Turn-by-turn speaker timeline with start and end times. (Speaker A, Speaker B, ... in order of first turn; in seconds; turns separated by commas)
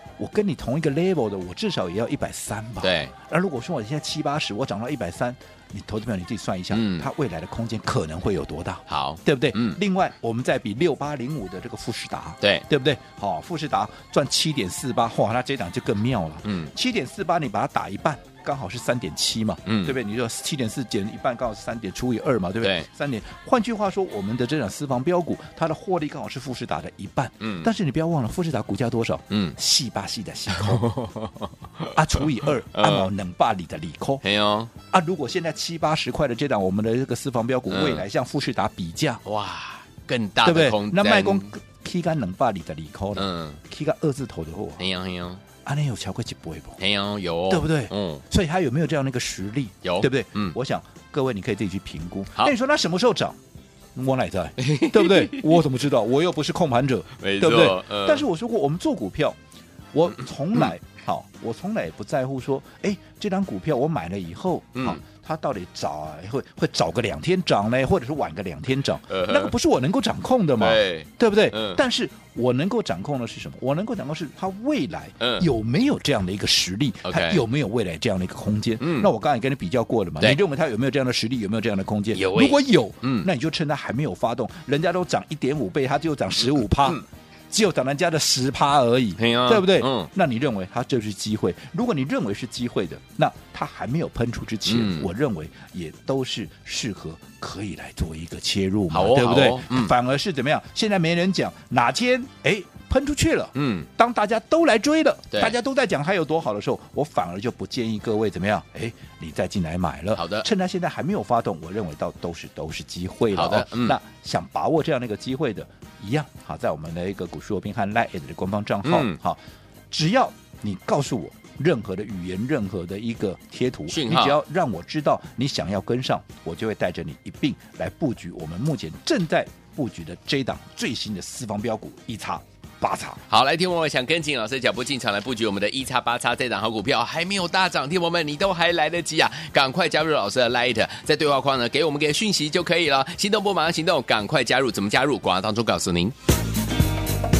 Speaker A: 0.2-30.9, Speaker B: 2.8-3.1, Speaker B: 6.7-7.1, Speaker B: 8.9-9.8, Speaker B: 12.4-12.7, Speaker B: 16.4-16.7, Speaker B: 19.6-19.9, Speaker B: 22.6-22.9, Speaker B: 27.4-27.7, Speaker B: 29.3-29.6, Speaker B: 30.5-33.1, Speaker A: 31.9-34.2, Speaker B: 34.2-34.7, Speaker A: 34.9-39.2, Speaker B: 37.7-38.0, Speaker B: 39.2-41.5, Speaker A: 40.4-44.8, Speaker B: 43.1-43.6, Speaker B: 44.8-45.4, Speaker A: 45.6-46.8, Speaker B: 46.8-48.2, Speaker A: 47.5-53.4, Speaker B: 49.8-50.5, Speaker A: 53.9-59.4, Speaker B: 54.6-55.5, Speaker B: 57.2-58.2, Speaker A: 59.9-119.4, Speaker B: 64.8-65.0, Speaker B: 69.1-69.5, Speaker B: 70.6-71.8, Speaker B: 75.2-75.5, Speaker B: 77.0-77.4, Speaker B: 78.8-79.1, Speaker B: 82.1-83.3, Speaker B: 89.2-90.1, Speaker B: 94.7-95.1, Speaker B: 98.9-99.9, Speaker B: 103.5-103.9, Speaker B: 110.1-110.5, Speaker B: 113.3-114.0, Speaker B: 118.8-119.2, Speaker A: 119.9-133.2, Speaker B: 123.9-124.4, Speaker B: 133.3-146.1